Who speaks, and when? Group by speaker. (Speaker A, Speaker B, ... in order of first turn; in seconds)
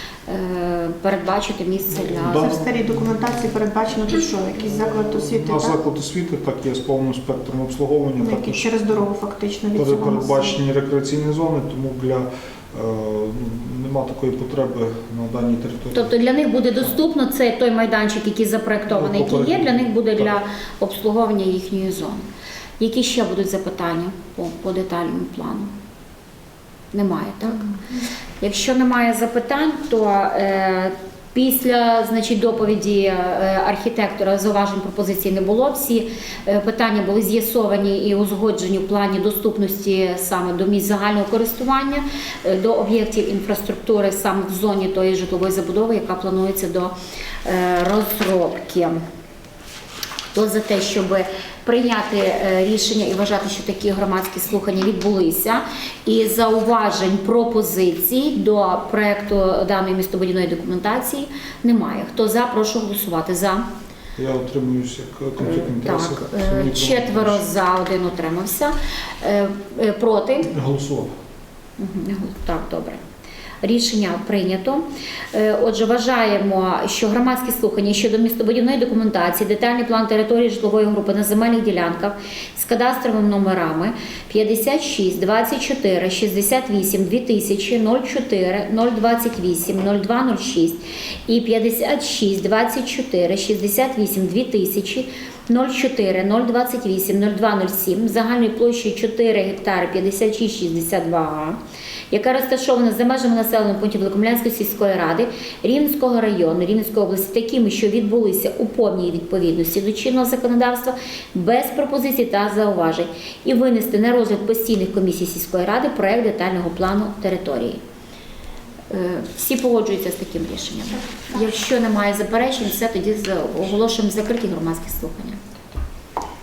Speaker A: 0.3-2.6, 15.9-22.2, 22.8-25.7, 26.9-27.7, 28.4-46.9, 47.4-49.0, 50.3-63.6, 65.4-70.5, 71.8-73.0, 73.6-101.6, 102.1-117.8, 118.9-125.4
Speaker B: 1.9-2.7, 4.7-8.7, 9.7-16.1, 18.9-20.3, 64.2-67.4, 70.5-71.1
Speaker C: 2.2-5.8, 8.2-10.5